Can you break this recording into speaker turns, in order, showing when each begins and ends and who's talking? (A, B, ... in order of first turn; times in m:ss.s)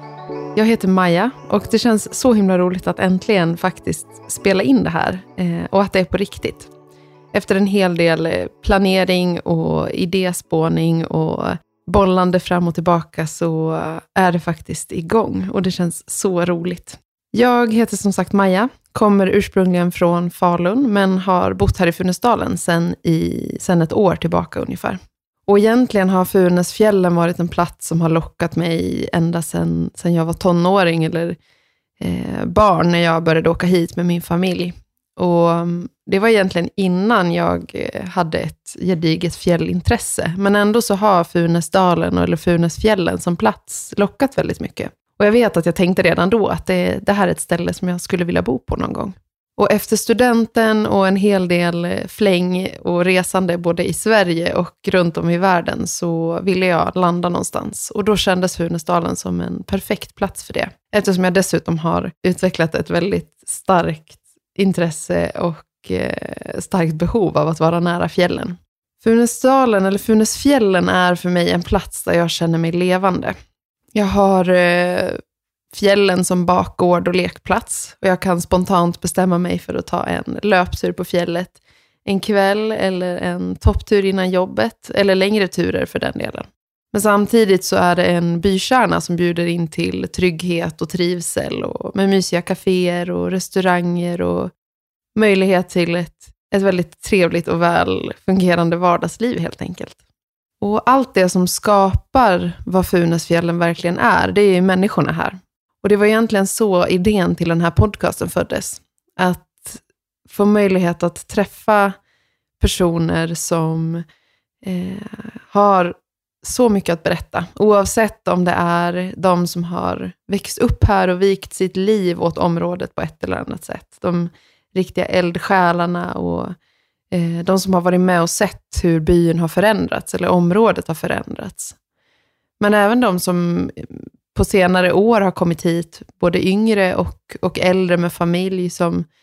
0:00.5-0:06.7 A
0:07.3-0:31.4 A
0:32.0-1:13.4 A
1:13.9-1:15.2 A
1:15.7-1:34.5 A
1:35.1-1:40.0 A
1:40.6-1:52.0 A
1:52.6-1:54.0 A
1:54.6-2:06.5 A
2:07.1-2:11.8 A
2:12.6-2:19.1 A